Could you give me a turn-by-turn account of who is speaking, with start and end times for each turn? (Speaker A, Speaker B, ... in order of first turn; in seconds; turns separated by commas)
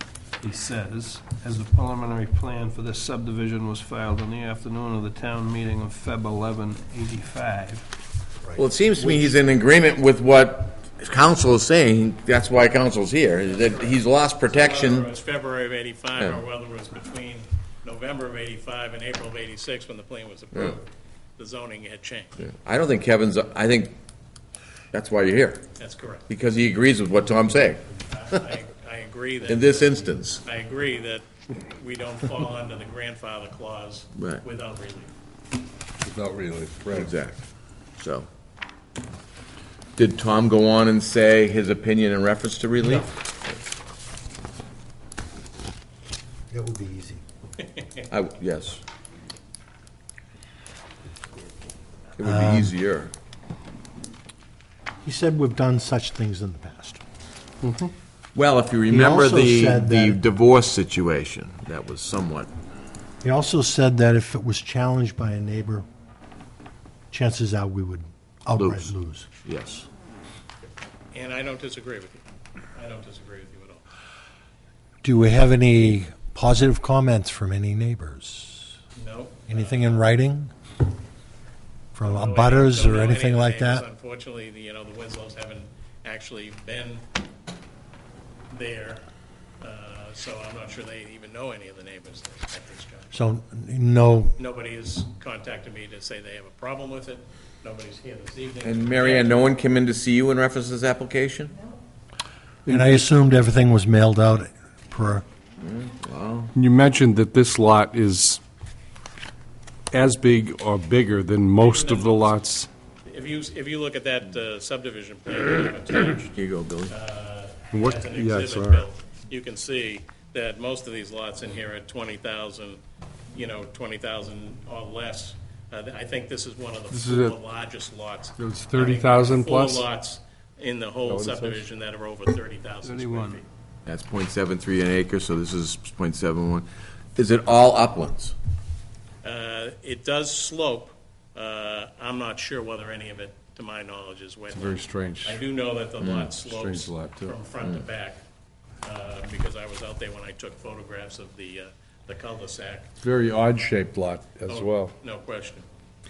Speaker A: 0.4-7.9, Speaker B: 8.4-9.3, Speaker C: 8.6-15.1, Speaker D: 13.5-22.4, Speaker C: 16.2-16.4, Speaker C: 22.4-23.9, Speaker C: 24.9-25.6, Speaker D: 25.8-26.3, Speaker C: 26.3-28.4, Speaker D: 27.9-35.1, Speaker C: 29.5-30.4, Speaker C: 34.1-34.4, Speaker E: 36.0-37.1, Speaker C: 37.0-37.4, Speaker C: 38.0-38.3, Speaker C: 40.0-43.1, Speaker B: 42.8-43.1, Speaker B: 46.5-47.2, Speaker C: 48.1-48.8, Speaker C: 52.2-53.1, Speaker B: 52.2-52.7, Speaker B: 55.0-57.0, Speaker E: 57.6-57.9, Speaker C: 58.3-62.5, Speaker B: 58.9-60.2, Speaker B: 63.2-65.8, Speaker B: 67.1-69.3, Speaker C: 68.6-68.9, Speaker C: 69.4-69.9, Speaker D: 71.1-73.8, Speaker B: 75.0-78.7, Speaker D: 79.0-80.0, Speaker B: 79.5-80.5, Speaker B: 81.9-83.8, Speaker D: 82.0-87.0, Speaker D: 88.5-89.0, Speaker D: 89.6-93.1, Speaker B: 93.1-94.3, Speaker D: 94.4-99.5, Speaker C: 98.6-101.5, Speaker E: 102.7-103.0, Speaker B: 102.7-105.2, Speaker C: 105.6-106.5, Speaker E: 106.5-108.4, Speaker E: 109.9-112.7, Speaker D: 111.6-112.4, Speaker D: 113.0-116.3, Speaker C: 116.3-116.9, Speaker D: 116.9-122.8, Speaker E: 117.7-118.8, Speaker D: 123.3-133.5, Speaker E: 126.9-127.4, Speaker E: 128.4-129.8, Speaker E: 131.1-131.6, Speaker A: 132.8-133.4, Speaker C: 133.8-138.3, Speaker D: 139.2-148.2, Speaker E: 144.5-145.4, Speaker C: 146.0-146.3, Speaker E: 146.3-147.4, Speaker D: 148.8-152.9, Speaker E: 153.0-154.9, Speaker D: 154.5-155.6